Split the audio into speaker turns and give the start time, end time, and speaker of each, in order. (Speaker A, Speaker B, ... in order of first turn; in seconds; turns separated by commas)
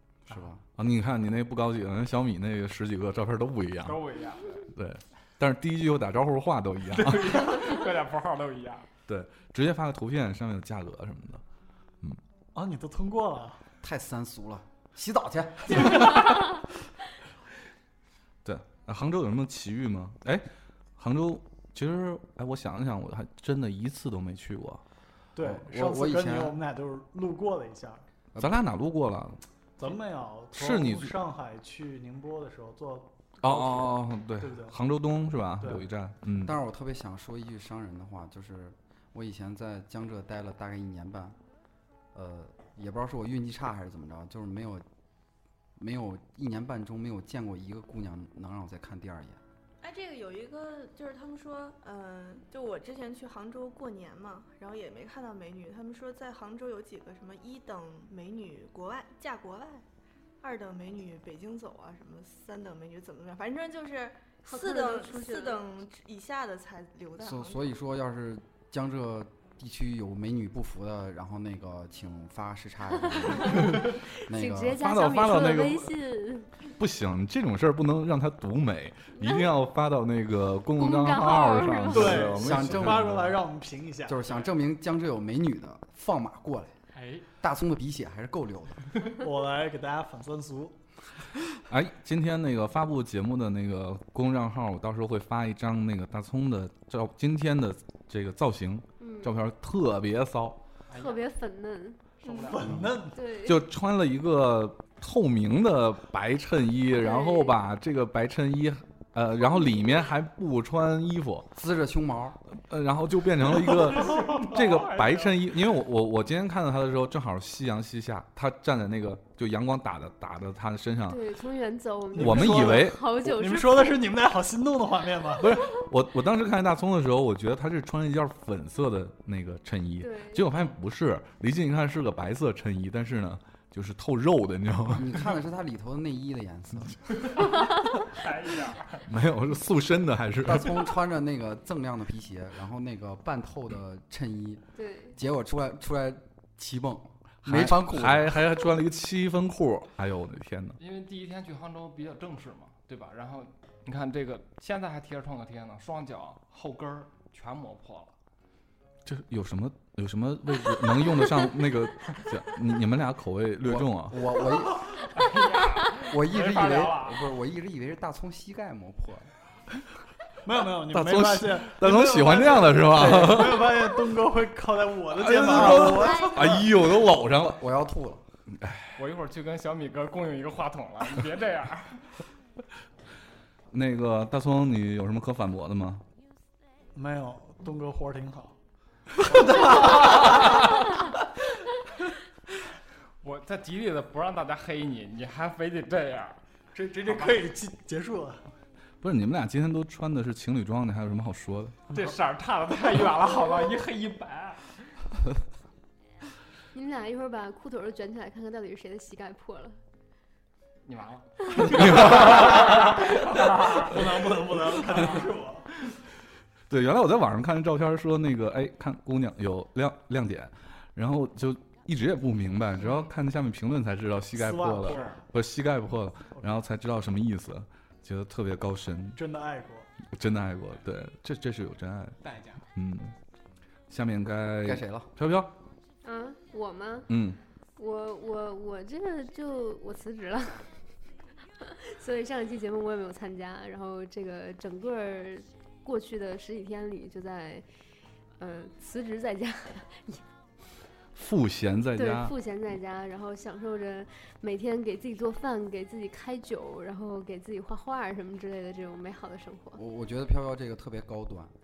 Speaker A: 0.3-0.6, Speaker B: 0.8-4.0, Speaker C: 3.8-4.7, Speaker B: 4.7-7.6, Speaker C: 6.9-8.9, Speaker B: 9.1-11.4, Speaker D: 12.5-13.6, Speaker A: 13.8-16.3, Speaker B: 18.4-20.4, Speaker B: 21.0-24.8, Speaker D: 25.3-28.0, Speaker A: 25.4-26.6, Speaker B: 28.4-29.4, Speaker D: 29.8-34.8, Speaker B: 30.5-31.1, Speaker B: 33.4-36.6, Speaker D: 35.6-35.9, Speaker A: 36.4-41.4, Speaker A: 42.1-44.8, Speaker A: 45.8-49.4, Speaker E: 49.8-59.8, Speaker E: 60.4-67.7, Speaker F: 64.4-65.6, Speaker A: 67.2-74.8, Speaker F: 73.4-76.5, Speaker B: 74.8-76.0, Speaker B: 76.8-83.2, Speaker F: 79.1-79.5, Speaker F: 80.8-82.2, Speaker D: 81.9-84.2, Speaker A: 82.2-83.3, Speaker A: 84.0-86.7, Speaker C: 86.9-87.3, Speaker A: 87.4-88.9, Speaker D: 89.2-90.8, Speaker B: 91.7-100.6, Speaker F: 99.0-99.3, Speaker C: 100.9-101.2, Speaker F: 100.9-102.2, Speaker C: 102.2-102.6, Speaker D: 102.3-103.2, Speaker F: 103.1-103.6, Speaker B: 103.4-111.5, Speaker F: 107.0-107.5, Speaker A: 111.5-112.4, Speaker B: 112.5-121.2, Speaker C: 114.0-115.4, Speaker F: 121.1-123.9, Speaker D: 122.1-125.5, Speaker B: 122.2-123.1, Speaker B: 125.4-135.2, Speaker F: 130.0-130.5, Speaker A: 134.9-137.0, Speaker C: 137.2-139.1, Speaker B: 139.1-140.7, Speaker A: 140.4-144.6, Speaker F: 144.8-145.2, Speaker A: 145.1-148.4, Speaker B: 147.4-150.8, Speaker C: 150.8-158.1, Speaker B: 159.0-164.2, Speaker A: 163.6-164.9, Speaker C: 164.9-167.3, Speaker A: 166.0-169.3, Speaker D: 170.4-176.8, Speaker B: 170.9-174.0, Speaker A: 172.9-173.6, Speaker B: 175.1-177.6, Speaker A: 177.3-178.2, Speaker B: 178.5-179.0, Speaker C: 179.0-182.1, Speaker B: 183.7-186.0, Speaker D: 186.9-188.6, Speaker D: 189.2-190.4, Speaker C: 189.6-190.1, Speaker C: 193.2-196.4, Speaker D: 196.7-198.4, Speaker C: 197.0-197.5, Speaker B: 199.0-201.8, Speaker C: 201.9-204.7, Speaker F: 206.7-209.8, Speaker C: 210.8-213.9, Speaker B: 211.5-212.7, Speaker D: 212.4-215.7, Speaker C: 214.9-215.2, Speaker B: 216.7-229.2, Speaker D: 224.3-225.2, Speaker C: 224.8-225.2, Speaker D: 229.1-229.9, Speaker B: 230.0-232.2, Speaker C: 232.2-232.6, Speaker B: 232.7-233.1, Speaker B: 233.9-235.5, Speaker A: 234.6-235.1, Speaker F: 236.0-237.1, Speaker B: 237.1-237.4, Speaker F: 237.8-240.7, Speaker F: 241.6-247.6, Speaker F: 248.4-250.2, Speaker B: 251.1-252.3, Speaker F: 251.9-259.8, Speaker A: 259.7-261.5